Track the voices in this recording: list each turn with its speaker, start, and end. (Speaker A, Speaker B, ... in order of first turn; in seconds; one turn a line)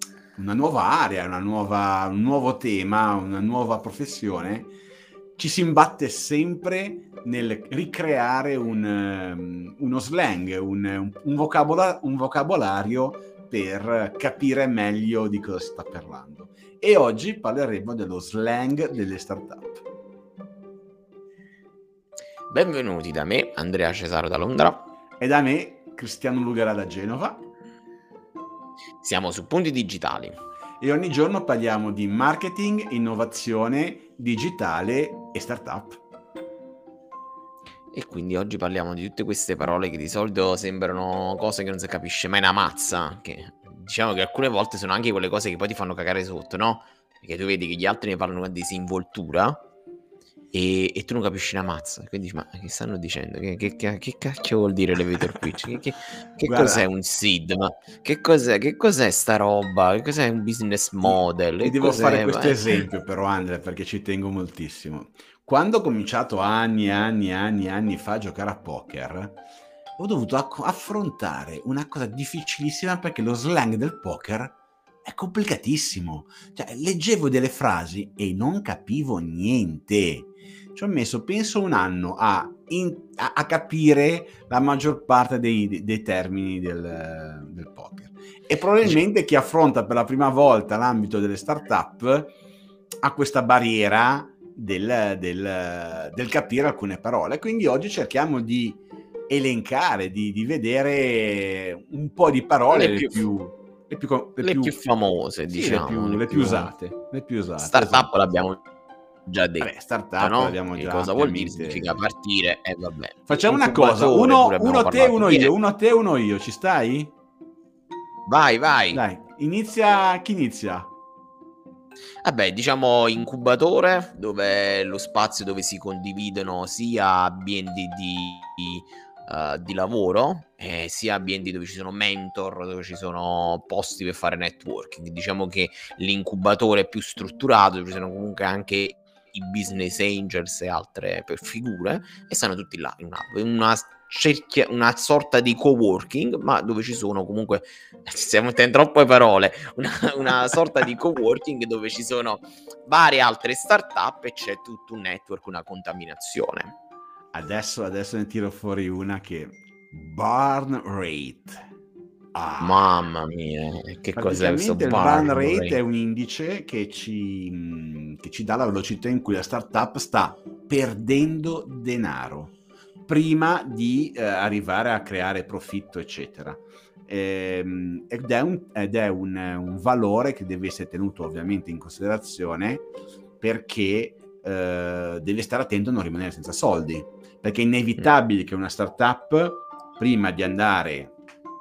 Speaker A: 0.3-4.7
Speaker A: 5.4-19.8
Speaker B: 22.5-24.9
Speaker A: 25.2-27.4
Speaker B: 29.0-30.4
Speaker A: 30.8-36.0
Speaker B: 37.9-49.6
Speaker B: 50.5-62.8
Speaker A: 55.4-55.8
Speaker A: 56.4-56.9
Speaker A: 61.0-69.4
Speaker A: 70.0-92.3
Speaker A: 93.0-108.1
Speaker B: 102.7-103.2
Speaker B: 104.4-106.7
Speaker B: 107.6-108.6
Speaker B: 109.2-115.5
Speaker A: 109.6-112.0
Speaker A: 113.3-117.1
Speaker B: 118.3-119.0
Speaker A: 118.9-120.9
Speaker B: 122.2-156.7
Speaker A: 157.3-161.6
Speaker A: 162.3-162.9
Speaker B: 162.6-165.8
Speaker A: 164.1-172.5
Speaker A: 173.1-182.9
Speaker A: 183.4-191.1